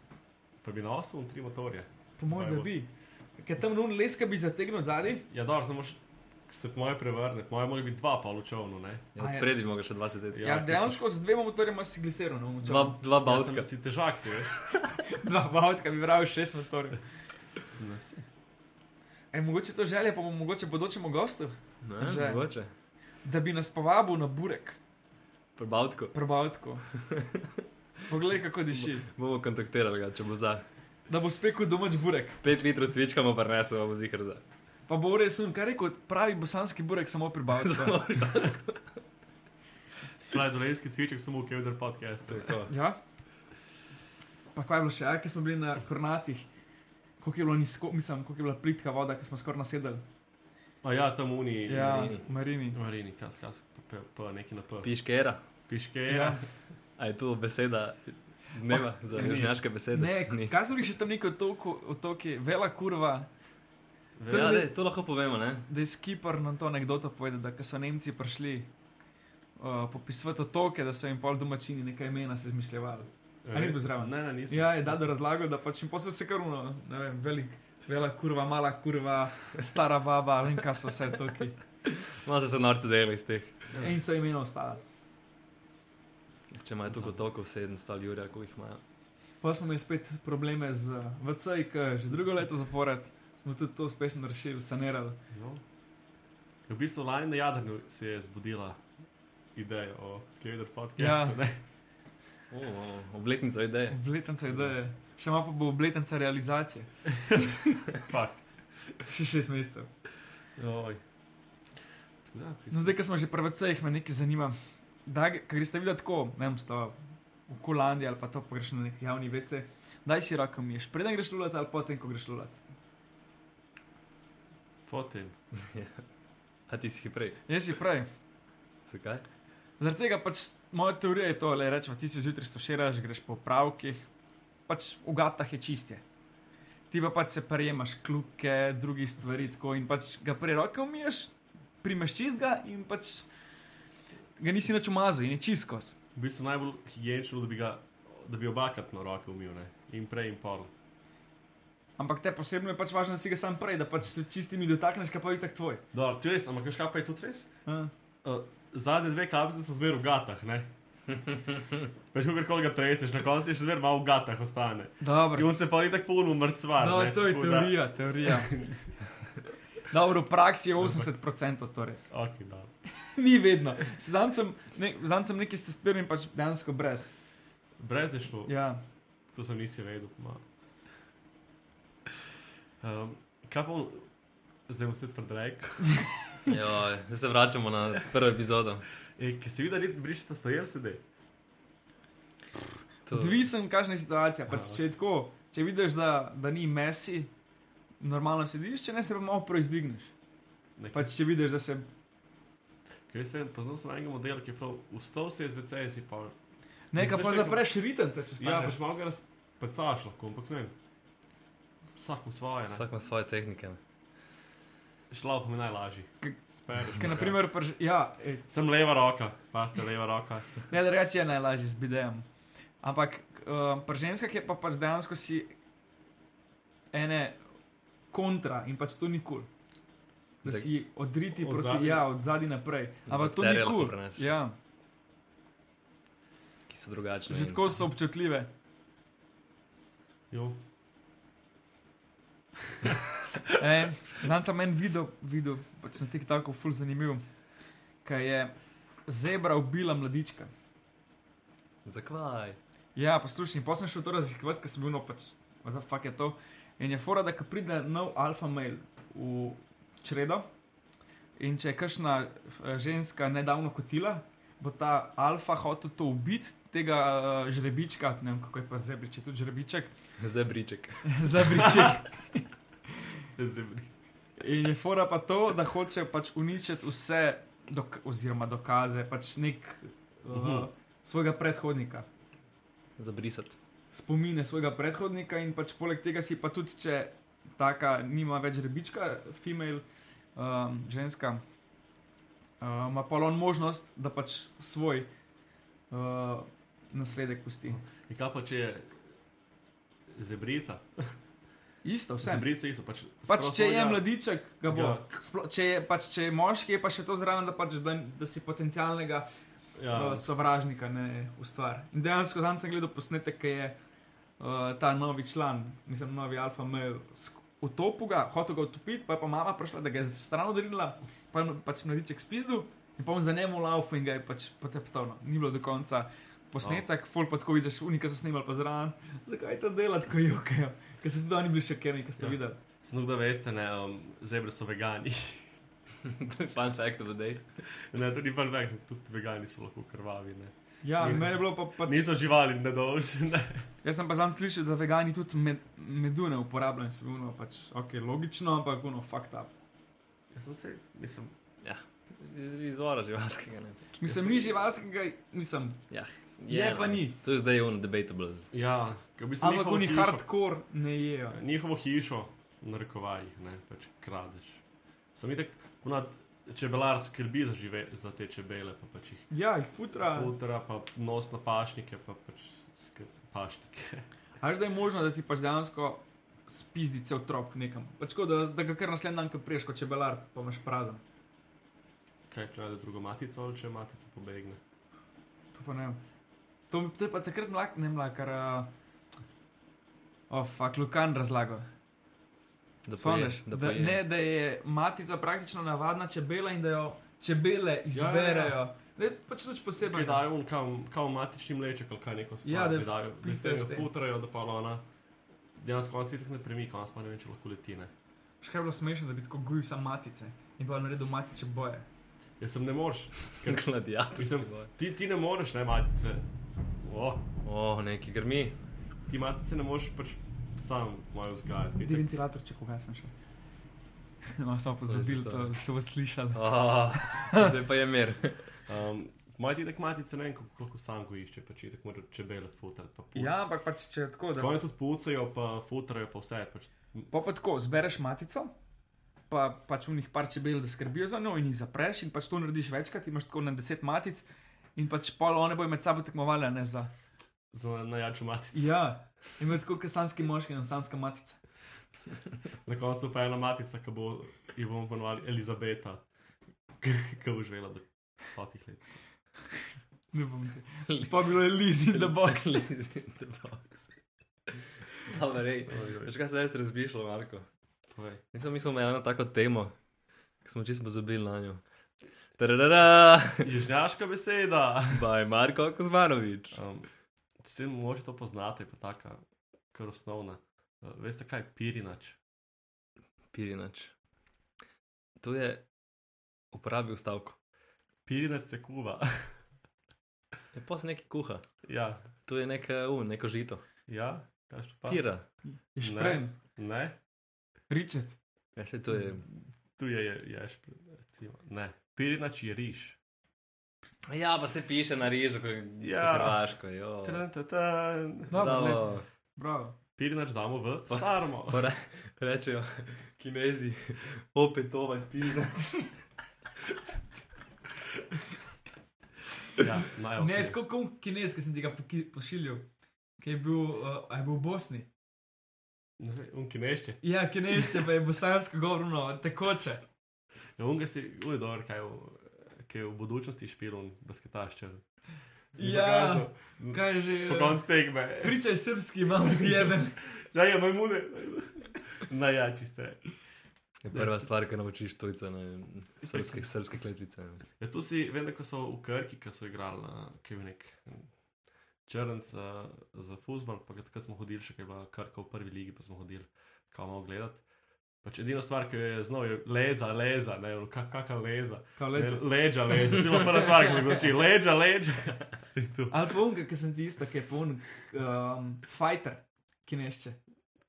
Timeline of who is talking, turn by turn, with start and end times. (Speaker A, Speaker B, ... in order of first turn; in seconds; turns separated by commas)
Speaker A: 0.6-2.7, Speaker B: 2.2-5.3, Speaker A: 5.3-9.1, Speaker C: 9.2-10.5, Speaker B: 9.2-9.5, Speaker A: 10.3-11.0, Speaker B: 10.4-13.0, Speaker C: 12.6-13.7, Speaker A: 13.2-14.6, Speaker B: 15.1-17.0, Speaker A: 17.8-18.3, Speaker B: 19.3-22.5, Speaker C: 21.8-22.7, Speaker B: 23.2-24.8, Speaker C: 25.6-26.1, Speaker B: 26.1-26.8, Speaker C: 26.9-27.6, Speaker B: 28.1-29.1, Speaker C: 28.7-30.6, Speaker B: 31.1-32.4, Speaker C: 32.4-34.4, Speaker B: 34.9-38.0, Speaker C: 37.6-38.9, Speaker A: 40.2-42.6, Speaker C: 42.3-42.7, Speaker B: 42.7-43.0, Speaker B: 44.5-46.5, Speaker B: 47.2-50.0, Speaker A: 50.8-54.9, Speaker B: 51.7-52.8, Speaker C: 54.8-55.4, Speaker A: 55.7-56.5, Speaker B: 56.1-56.4, Speaker C: 57.0-60.5, Speaker B: 58.7-63.3, Speaker A: 59.1-59.6, Speaker A: 64.2-64.7, Speaker B: 64.3-64.7, Speaker C: 64.3-65.7, Speaker B: 65.7-68.7, Speaker B: 69.6-81.6, Speaker A: 73.4-75.1, Speaker C: 81.9-83.5, Speaker A: 83.7-84.0, Speaker B: 83.7-84.8, Speaker C: 86.6-88.8, Speaker A: 86.9-87.2, Speaker B: 89.4-95.2, Speaker A: 95.3-95.6, Speaker A: 96.7-98.8, Speaker A: 99.5-101.6, Speaker B: 101.0-101.4, Speaker C: 102.5-104.0, Speaker B: 103.9-106.9, Speaker A: 108.0-108.5, Speaker B: 109.1-109.9, Speaker A: 110.6-111.0, Speaker A: 112.2-113.0, Speaker B: 112.7-122.6, Speaker A: 124.9-125.4, Speaker C: 125.6-126.0, Speaker C: 126.7-127.4, Speaker B: 127.5-128.1, Speaker C: 128.9-129.3, Speaker B: 129.8-134.1, Speaker B: 134.7-136.0, Speaker B: 136.9-143.3, Speaker B: 144.4-145.9, Speaker A: 146.2-150.7, Speaker B: 152.0-155.8, Speaker A: 155.9-157.5, Speaker B: 157.7-157.9, Speaker A: 158.2-160.7, Speaker A: 162.1-169.0, Speaker B: 165.0-165.5, Speaker B: 166.8-168.6, Speaker B: 169.9-172.1, Speaker A: 170.8-171.1, Speaker A: 172.1-172.7, Speaker B: 173.0-177.1, Speaker A: 177.8-178.5, Speaker B: 178.5-178.8, Speaker A: 179.3-180.4, Speaker A: 182.8-184.1, Speaker A: 184.7-186.0, Speaker C: 186.5-188.9, Speaker A: 189.2-191.0, Speaker C: 193.1-193.4, Speaker B: 193.1-197.3, Speaker A: 194.5-194.8, Speaker B: 198.0-200.1, Speaker A: 200.8-201.1, Speaker B: 200.9-201.9, Speaker A: 203.1-206.3, Speaker B: 206.9-208.8, Speaker A: 207.0-207.7, Speaker A: 208.4-210.7, Speaker A: 212.0-212.8, Speaker C: 212.7-213.8, Speaker A: 215.1-217.5, Speaker B: 216.2-218.5, Speaker A: 218.5-220.6, Speaker B: 220.7-222.2, Speaker B: 222.8-225.5, Speaker B: 226.9-227.4, Speaker B: 228.1-229.5, Speaker B: 230.4-234.6, Speaker A: 231.3-232.1, Speaker C: 233.1-234.3, Speaker C: 236.7-237.8, Speaker B: 237.3-238.5, Speaker A: 240.3-240.6, Speaker B: 243.6-247.3, Speaker B: 248.0-250.5, Speaker C: 251.8-252.6, Speaker B: 252.9-260.5, Speaker B: 261.4-269.9, Speaker C: 270.2-271.2, Speaker B: 271.1-272.5, Speaker A: 271.4-272.0, Speaker A: 273.4-273.9, Speaker B: 274.4-282.1, Speaker A: 280.3-280.7, Speaker C: 283.0-283.6, Speaker B: 283.9-289.9, Speaker B: 290.4-291.4, Speaker B: 292.6-295.1, Speaker B: 295.9-297.8, Speaker A: 297.7-299.0, Speaker A: 300.1-301.2, Speaker B: 301.8-302.5, Speaker A: 302.2-304.1, Speaker B: 303.3-309.3, Speaker A: 304.6-305.1, Speaker A: 309.8-310.3, Speaker B: 309.9-313.8, Speaker B: 314.4-332.6, Speaker A: 332.2-335.6, Speaker C: 336.1-337.6, Speaker A: 337.8-343.7, Speaker B: 340.8-342.1, Speaker B: 343.8-349.5, Speaker A: 350.3-351.3, Speaker C: 351.6-354.0, Speaker B: 354.0-355.8, Speaker A: 354.1-354.5, Speaker C: 355.9-358.5, Speaker B: 356.5-357.2, Speaker A: 358.5-360.3, Speaker B: 359.4-361.4, Speaker A: 361.3-364.6, Speaker A: 365.1-369.3, Speaker B: 369.3-370.4, Speaker A: 370.0-374.1, Speaker B: 374.4-381.0, Speaker A: 382.3-384.6, Speaker B: 385.5-386.0, Speaker B: 386.7-388.7, Speaker B: 390.3-391.7, Speaker C: 392.9-394.0, Speaker B: 393.0-400.2, Speaker A: 397.9-398.6, Speaker A: 399.8-404.9, Speaker B: 402.4-403.9, Speaker A: 405.6-407.9, Speaker B: 408.4-411.9, Speaker A: 412.4-416.3, Speaker C: 413.3-414.7, Speaker A: 416.8-417.3, Speaker C: 417.4-418.6, Speaker A: 419.1-422.1, Speaker B: 421.8-423.1, Speaker B: 424.3-427.5, Speaker C: 424.9-425.5, Speaker C: 426.3-428.6, Speaker A: 428.7-433.4, Speaker B: 433.1-434.6, Speaker A: 434.4-437.1, Speaker B: 437.1-438.5, Speaker B: 439.3-446.9, Speaker A: 447.5-448.7, Speaker B: 448.5-451.4, Speaker A: 452.6-456.0, Speaker A: 456.8-459.0, Speaker B: 460.1-462.6, Speaker C: 460.9-463.9, Speaker C: 465.0-467.5, Speaker A: 465.7-466.1, Speaker A: 467.9-468.2, Speaker C: 468.3-469.7, Speaker C: 470.4-471.6, Speaker C: 472.4-473.5, Speaker A: 473.4-475.1, Speaker C: 474.9-476.6, Speaker A: 476.5-476.9, Speaker A: 477.4-482.2, Speaker C: 483.3-483.9, Speaker C: 485.2-485.7, Speaker C: 486.5-487.4, Speaker A: 488.1-489.4, Speaker C: 490.5-491.5, Speaker A: 491.6-492.0, Speaker C: 492.2-493.6, Speaker A: 493.9-495.1, Speaker C: 494.9-495.3, Speaker B: 495.4-496.4, Speaker A: 495.8-497.0, Speaker B: 497.7-498.2, Speaker C: 498.6-499.2, Speaker A: 499.2-503.0, Speaker C: 504.1-507.2, Speaker A: 505.8-506.4, Speaker A: 507.0-508.4, Speaker B: 508.3-509.8, Speaker C: 508.3-509.0, Speaker A: 510.0-511.7, Speaker C: 510.9-516.0, Speaker A: 519.6-520.6, Speaker B: 520.2-522.7, Speaker B: 523.2-524.9, Speaker A: 526.0-527.0, Speaker B: 527.0-529.8, Speaker A: 530.6-534.9, Speaker A: 535.5-538.4, Speaker B: 535.6-537.7, Speaker B: 538.2-540.0, Speaker A: 539.3-543.0, Speaker C: 543.8-547.5, Speaker A: 546.1-546.4, Speaker A: 547.6-551.1, Speaker A: 551.9-557.5, Speaker A: 558.0-566.0, Speaker B: 561.8-562.9, Speaker B: 565.9-570.2